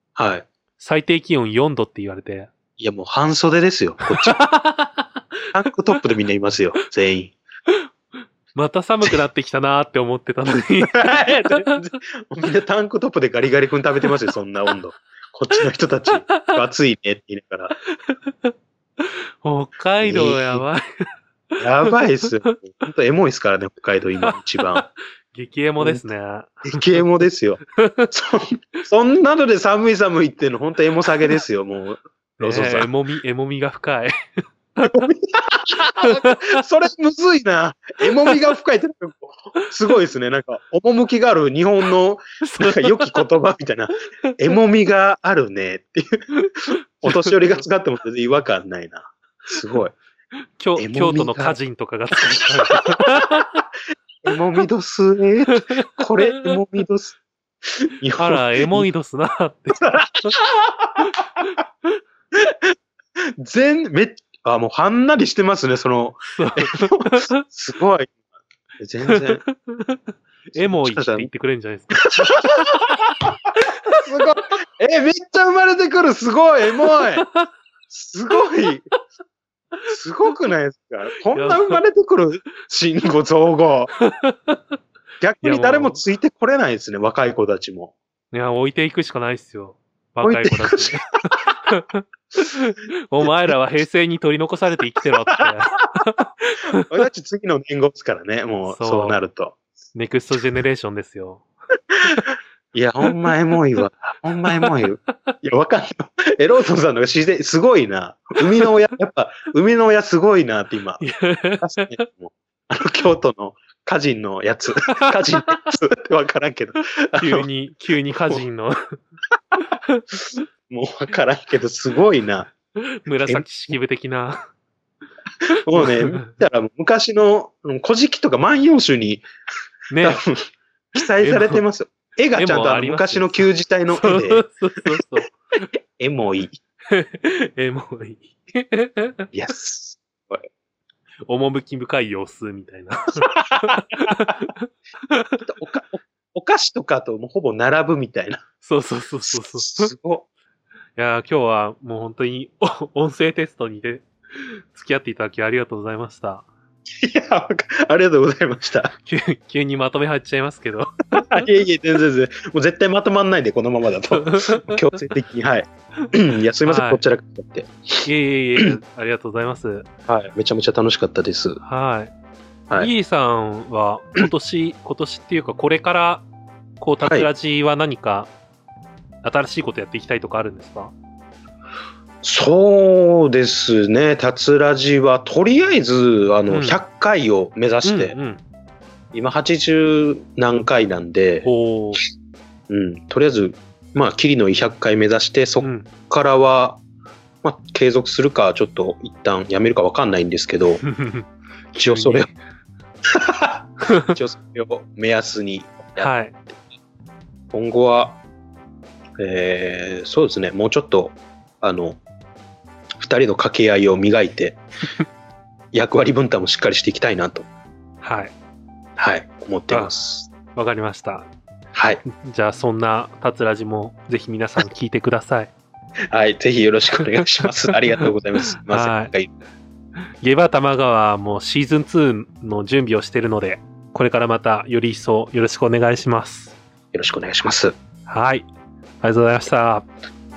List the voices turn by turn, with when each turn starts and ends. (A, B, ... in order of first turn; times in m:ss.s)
0:00.2-0:00.5 A
0:00.8-0:02.5 B
0:02.8-0:04.4 A
0:04.0-0:05.2 B
0:05.5-0:07.3 A
0:08.6-0:11.8 B
0:10.8-0:17.7 A
0:16.3-0:16.6 B
0:17.9-0:20.8 B
0:20.0-0:20.6 A
0:21.6-0:24.9 A
0:21.8-0:22.5 B
0:24.2-0:27.0 B
0:25.8-0:26.0 A
0:26.6-0:32.9 A
0:27.8-0:28.1 B
0:32.4-0:34.1 B
0:34.8-0:50.0 A
0:35.9-0:36.6 B
0:42.4-0:43.2 B
0:47.0-0:47.6 B
0:50.6-0:53.6 B
0:50.8-0:51.6 A
0:52.2-0:53.3 A
0:54.2-0:58.9 A
0:55.6-0:56.5 B
0:58.1-1:00.3 B
0:59.8-1:01.1 A
1:01.0-1:02.0 B
1:02.3-1:02.7 A
1:03.4-1:08.1 A
1:06.3-1:07.4 B
1:08.8-1:09.4 A
1:09.1-1:13.0 B
1:10.5-1:11.3 A
1:12.0-1:17.3 A
1:13.6-1:14.2 B
1:16.8-1:17.5 B
1:17.9-1:18.8 A
1:19.9-1:23.9 A
1:21.3-1:21.8 B
1:24.0-1:24.6 B
1:25.2-1:27.9 A
1:25.4-1:26.0 B
1:28.3-1:36.9 B
1:30.2-1:31.5 A
1:33.2-1:33.5 A
1:35.0-1:35.4 A
1:36.8-1:39.6 A
1:38.7-1:39.2 B
1:39.9-1:41.4 B
1:42.0-1:42.2 A
1:42.0-1:42.3 B
1:42.7-1:57.5 A
1:51.0-1:52.0 B
1:54.9-1:55.6 B
1:57.2-1:59.0 B
1:59.6-2:00.0 B
2:00.7-2:02.5 A
2:02.8-2:04.4 B
2:03.2-2:03.5 A
2:05.6-2:09.2 A
2:05.7-2:06.3 B
2:09.9-2:10.2 B
2:10.0-2:15.0 A
2:11.2-2:11.6 B
2:12.4-2:15.3 B
2:16.0-2:16.6 A
2:16.9-2:19.3 B
2:19.3-2:20.4 A
2:21.3-2:25.4 B
2:23.2-2:24.5 A
2:25.4-2:28.4 A
2:28.6-2:29.9 B
2:29.2-2:30.2 A
2:31.0-2:36.4 B
2:37.0-2:38.9 A
2:39.0-2:41.5 B
2:41.1-2:48.1 A
2:44.1-2:45.0 B
2:46.6-2:47.0 B
2:48.0-2:49.9 B
2:50.1-2:51.6 A
2:51.6-2:52.1 B
2:52.8-2:56.2 B
2:56.8-2:58.3 B
2:57.0-2:57.3 A
2:59.2-3:00.9 B
3:02.2-3:08.2 A
3:06.5-3:06.8 B
3:07.8-3:08.4 B
3:09.1-3:11.5 A
3:11.4-3:12.0 B
3:12.7-3:16.8 A
3:15.6-3:15.9 B
3:17.4-3:20.8 A
3:20.8-3:22.3 B
3:21.8-3:22.3 A
3:23.1-3:26.1 A
3:23.9-3:24.1 B
3:26.0-3:26.4 B
3:27.5-3:28.2 A
3:29.2-3:32.0 A
3:33.0-3:34.6 A
3:35.7-3:37.5 A
3:38.0-3:38.3 B
3:39.0-3:40.3 A
3:40.5-3:41.3 B
3:41.7-3:42.0 A
3:42.2-3:45.5 B
3:46.1-3:49.3 A
3:46.9-3:49.1 B
3:50.2-3:56.6 B
3:56.9-3:57.7 A
3:58.1-3:58.5 B
3:59.0-3:59.9 B